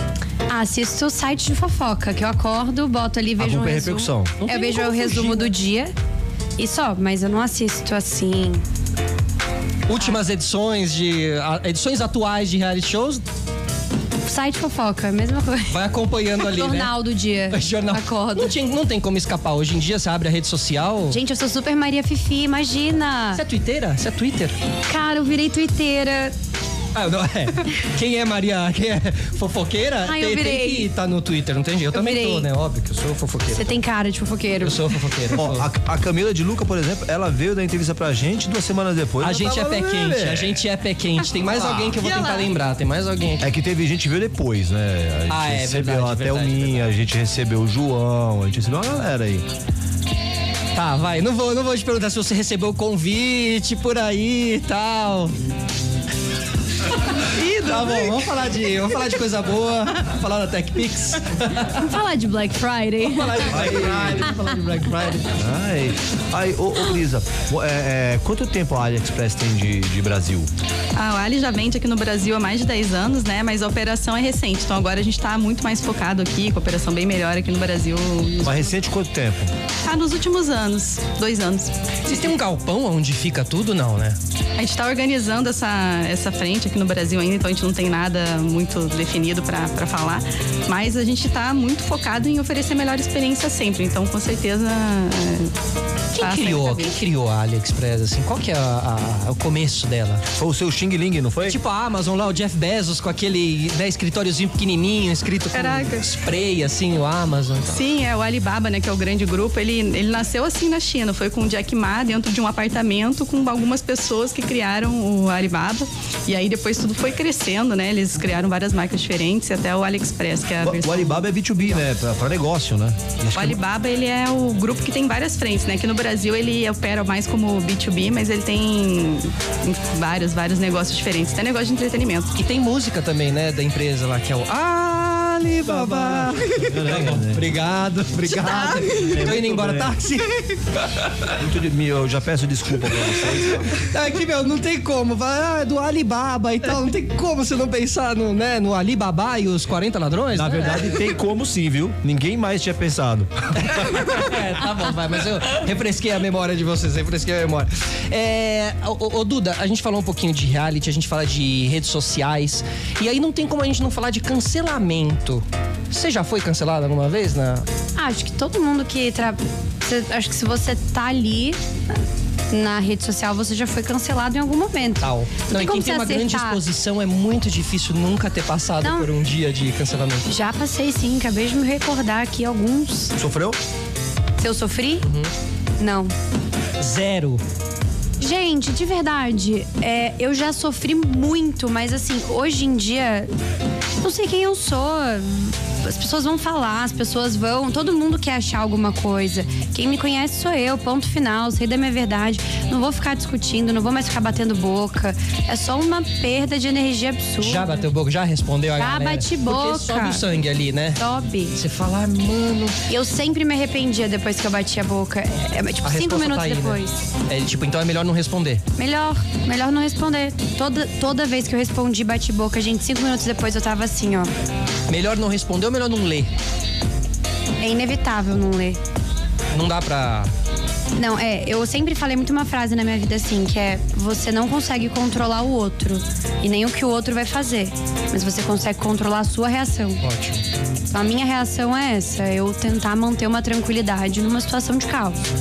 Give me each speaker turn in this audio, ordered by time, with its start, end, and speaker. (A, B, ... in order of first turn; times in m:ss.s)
0:00.5-0:05.9 A
0:03.4-0:04.4 B
0:04.4-0:05.4 C
0:06.6-0:08.6 A
0:09.9-0:13.2 C
0:14.2-0:15.8 A
0:15.7-0:17.0 C
0:16.4-0:18.5 A
0:17.5-0:21.2 C
0:21.1-0:23.4 A
0:23.4-0:24.6 C
0:24.9-0:26.4 A
0:27.0-0:33.8 C
0:30.0-0:30.9 A
0:31.9-0:32.5 A
0:33.5-0:34.9 A
0:34.6-0:35.7 C
0:35.4-0:40.6 B
0:39.2-0:43.5 C
0:41.5-0:42.0 B
0:41.6-0:42.5 D
0:43.4-0:49.5 B
0:45.3-0:46.8 C
0:50.8-0:55.3 C
0:57.1-1:01.9 C
0:57.2-0:58.2 D
1:01.9-1:03.4 A
1:01.9-1:03.1 D
1:03.0-1:05.4 C
1:03.5-1:04.4 B
1:05.3-1:10.5 B
1:11.0-1:18.8 D
1:18.4-1:19.5 B
1:19.8-1:21.7 D
1:22.0-1:24.2 C
1:24.6-1:35.5 D
1:36.1-1:40.2 C
1:36.2-1:37.0 D
1:40.3-1:41.6 B
1:41.5-1:47.8 C
1:45.5-1:46.1 D
1:47.7-2:01.3 D
2:00.6-2:03.6 B
2:03.4-2:12.3 D
2:12.4-2:21.2 C
2:15.6-2:17.5 B
2:18.3-2:19.3 D
2:18.6-2:20.0 B
2:21.3-2:23.8 B
2:23.7-2:31.0 C
2:30.3-2:34.2 B
2:33.6-2:47.7 C
2:48.0-2:56.6 A
2:55.0-3:00.3 C
2:58.8-2:59.1 A
3:00.3-3:03.2 A
3:03.2-3:03.6 B
3:04.4-3:05.1 A
3:05.0-3:05.3 C
3:05.8-3:06.1 A
3:06.8-3:07.4 C
3:08.2-3:13.3 A
3:14.0-3:27.8 A
3:27.4-3:31.0 C
3:28.8-3:30.3 A
3:31.0-3:31.6 A
3:31.6-3:32.8 C
3:32.9-3:37.0 A
3:35.8-3:38.6 C
3:38.8-3:44.3 A
3:44.9-3:46.3 C
3:47.6-3:48.8 A
3:49.5-3:50.3 C
3:51.0-4:00.0 A
4:00.0-4:00.4 C
4:00.9-4:05.2 A